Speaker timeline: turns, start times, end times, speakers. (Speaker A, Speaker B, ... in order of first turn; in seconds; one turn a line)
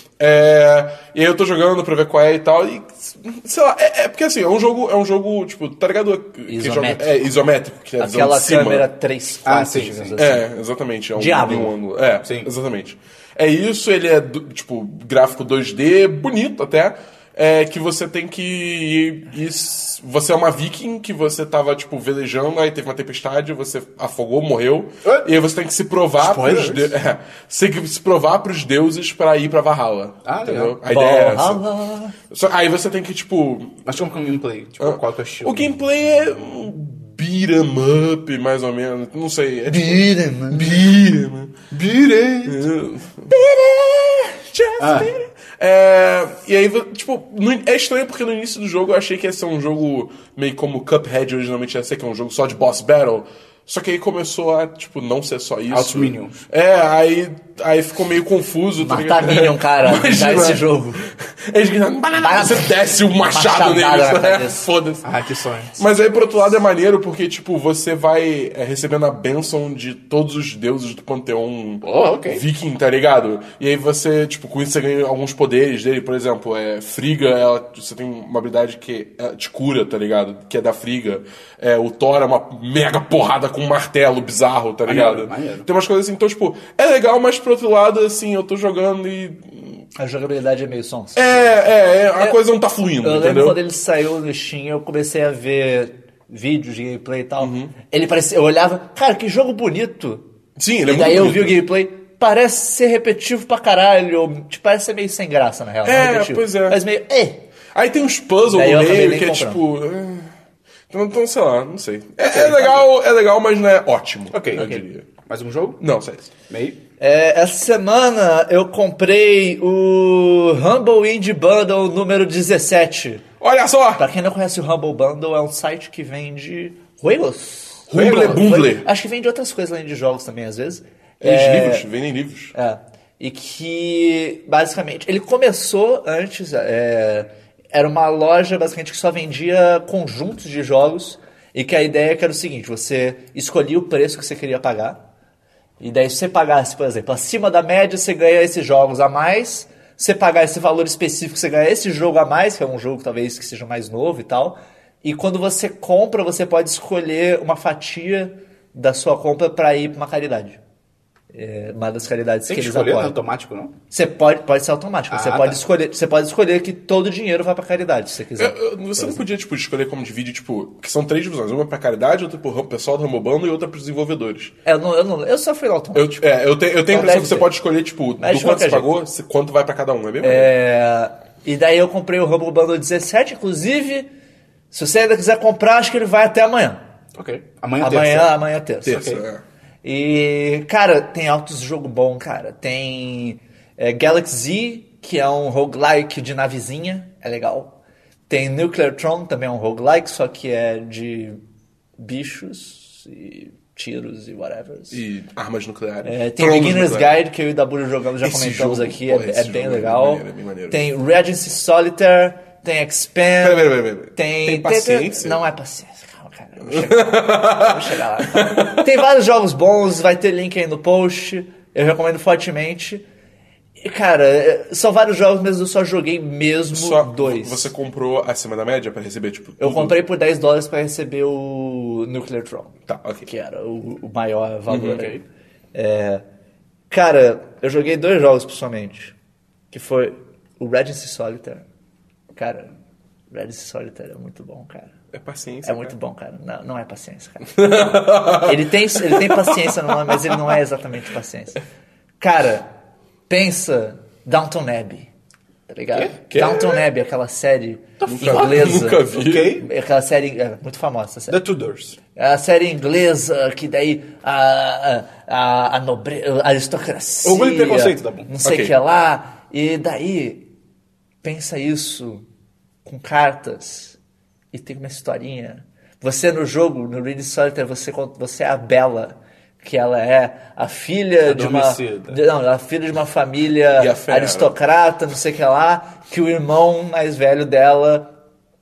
Speaker A: 0.2-8.9
Speaker B: 6.5-7.1
Speaker B: 8.0-10.4
Speaker C: 9.4-10.2
Speaker A: 10.2-31.6
Speaker B: 11.2-11.7
Speaker C: 12.2-12.5
Speaker C: 26.2-26.9
Speaker C: 30.2-30.8
Speaker B: 30.9-32.1
Speaker A: 32.3-33.8
Speaker C: 33.9-35.8
Speaker A: 34.8-41.5
Speaker B: 39.7-40.8
Speaker C: 41.7-42.7
Speaker A: 42.5-43.3
Speaker B: 43.3-45.0
Speaker A: 44.6-65.0
Speaker C: 44.8-45.1
Speaker C: 55.7-56.5
Speaker B: 58.8-61.0
Speaker B: 62.2-64.6
Speaker C: 65.0-65.8
Speaker A: 65.8-89.8
Speaker C: 71.8-72.4
Speaker C: 84.8-85.7
Speaker B: 90.0-92.4
Speaker A: 91.2-93.6
Speaker B: 93.0-100.2
Speaker A: 97.4-97.7
Speaker A: 100.5-101.6
Speaker B: 100.9-107.4
Speaker A: 105.8-106.8
Speaker A: 107.7-110.3
Speaker B: 108.5-109.6
Speaker A: 110.9-115.1
Speaker C: 112.2-112.8
Speaker C: 114.3-115.8
Speaker A: 115.8-116.3
Speaker C: 116.5-116.8
Speaker B: 117.0-123.2
Speaker A: 123.4-124.0
Speaker B: 124.0-131.9
Speaker A: 127.9-128.9
Speaker A: 131.2-132.5
Speaker B: 132.5-145.0
Speaker B: 145.8-160.6
Speaker B: 161.3-163.2
Speaker C: 162.5-163.7
Speaker B: 163.9-169.2
Speaker C: 165.1-165.6
Speaker A: 168.4-174.5
Speaker B: 174.6-176.2
Speaker A: 175.9-180.5
Speaker B: 176.9-177.5
Speaker B: 178.2-178.9
Speaker B: 180.2-184.1
Speaker B: 184.7-186.8
Speaker C: 187.1-188.3
Speaker B: 187.8-189.1
Speaker A: 188.8-189.4
Speaker C: 188.9-189.2
Speaker B: 189.8-197.7
Speaker B: 198.3-201.4
Speaker B: 202.0-205.0
Speaker A: 204.9-207.2
Speaker B: 206.0-223.0
Speaker A: 208.2-210.9
Speaker A: 213.4-215.4
Speaker A: 216.6-218.9
Speaker B: 223.8-227.7
Speaker A: 226.7-230.0
Speaker B: 229.6-235.2
Speaker A: 232.9-233.3
Speaker A: 234.7-235.1
Speaker B: 235.7-236.2
Speaker B: 236.9-239.1
Speaker B: 239.7-241.6
Speaker B: 242.3-242.7
Speaker B: 243.3-244.9
Speaker A: 245.1-245.9
Speaker B: 245.6-251.6
Speaker A: 247.6-250.5
Speaker B: 252.2-252.7
Speaker B: 253.3-255.1
Speaker B: 255.7-261.4
Speaker A: 256.3-256.8
Speaker C: 258.0-259.7
Speaker A: 258.0-259.6
Speaker C: 261.3-262.0
Speaker B: 262.1-270.4
Speaker C: 267.2-268.3
Speaker A: 268.4-268.7
Speaker B: 271.2-272.2
Speaker B: 272.8-274.0
Speaker B: 274.5-288.1
Speaker C: 281.2-282.2
Speaker A: 283.8-284.5